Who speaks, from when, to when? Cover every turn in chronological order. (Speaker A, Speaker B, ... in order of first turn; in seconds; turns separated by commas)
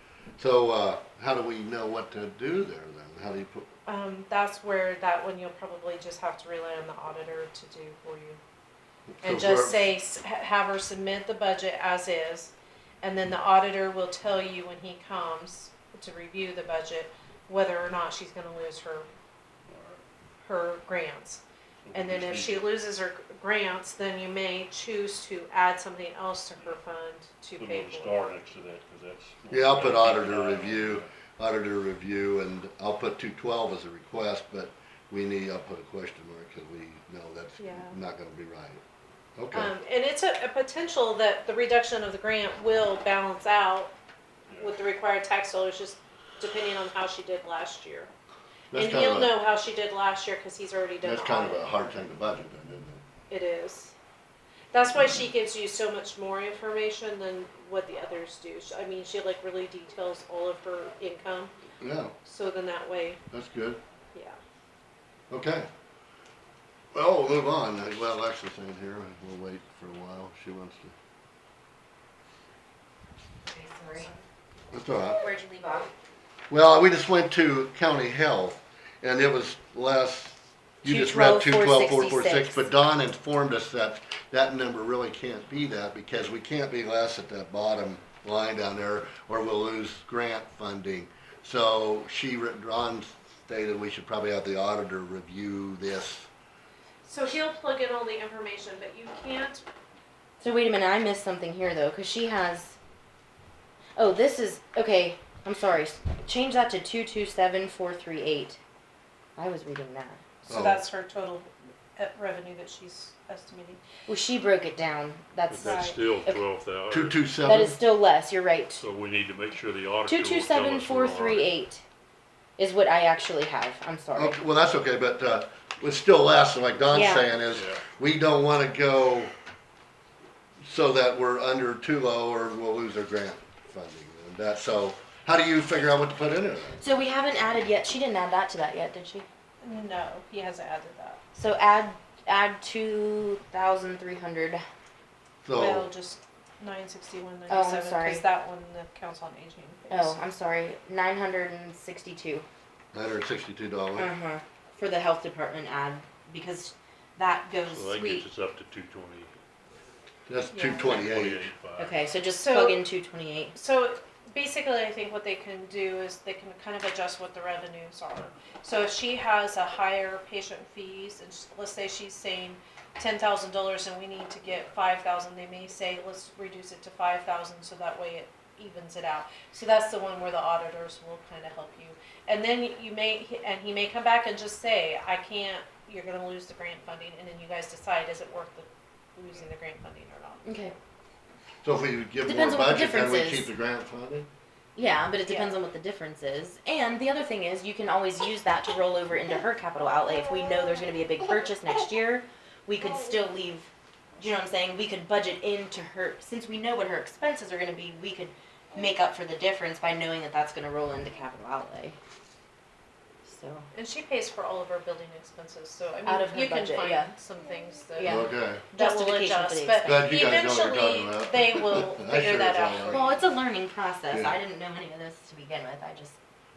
Speaker A: 0.4-3.7, Speaker B: 3.9-8.4, Speaker A: 9.2-9.8, Speaker B: 9.2-19.1, Speaker C: 19.6-20.0, Speaker B: 20.4-21.4, Speaker C: 21.8-22.6, Speaker B: 21.9-28.3, Speaker C: 27.6-31.1, Speaker A: 29.5-38.8, Speaker B: 37.6-38.0, Speaker A: 39.4-39.7, Speaker B: 39.5-43.9, Speaker C: 44.5-44.7, Speaker B: 44.5-48.1, Speaker A: 48.7-49.3, Speaker B: 48.7-51.6, Speaker A: 51.0-53.0, Speaker B: 53.3-53.9, Speaker B: 54.7-61.5, Speaker A: 61.8-62.1, Speaker B: 62.2-63.2, Speaker A: 63.3-63.8, Speaker A: 65.3-65.7, Speaker A: 66.9-70.9, Speaker D: 73.4-74.1, Speaker A: 74.7-75.2, Speaker D: 75.0-75.9, Speaker A: 76.5-96.3, Speaker D: 80.8-82.7, Speaker B: 97.0-99.7, Speaker D: 100.4-102.8, Speaker D: 104.0-108.6, Speaker D: 109.4-110.2, Speaker B: 110.4-113.8, Speaker A: 110.5-110.8, Speaker D: 114.1-116.4, Speaker C: 115.5-117.3, Speaker B: 115.6-116.0, Speaker A: 116.9-117.8, Speaker D: 117.4-118.8, Speaker C: 118.8-121.5, Speaker D: 120.0-121.8, Speaker D: 122.6-124.4, Speaker A: 124.1-129.3, Speaker D: 126.9-127.3, Speaker C: 127.4-127.8, Speaker A: 130.6-136.8, Speaker D: 136.8-139.2, Speaker B: 139.6-141.2, Speaker D: 141.3-144.6, Speaker A: 145.4-145.9, Speaker B: 145.5-150.2, Speaker D: 147.5-148.2, Speaker D: 149.9-152.4, Speaker A: 152.9-154.1, Speaker D: 153.9-158.2, Speaker C: 157.7-159.3, Speaker A: 160.3-161.5, Speaker B: 160.5-161.0, Speaker C: 160.8-162.0, Speaker D: 161.8-163.5, Speaker B: 162.3-162.8, Speaker B: 163.5-190.7, Speaker D: 190.4-190.7, Speaker A: 191.6-194.3, Speaker D: 192.2-193.5, Speaker D: 194.8-212.0, Speaker B: 195.2-195.6, Speaker D: 213.2-213.7, Speaker B: 213.7-223.1, Speaker D: 216.0-217.1, Speaker D: 218.0-220.0, Speaker A: 218.1-218.7, Speaker A: 219.8-223.1, Speaker D: 222.9-226.2, Speaker A: 224.1-224.4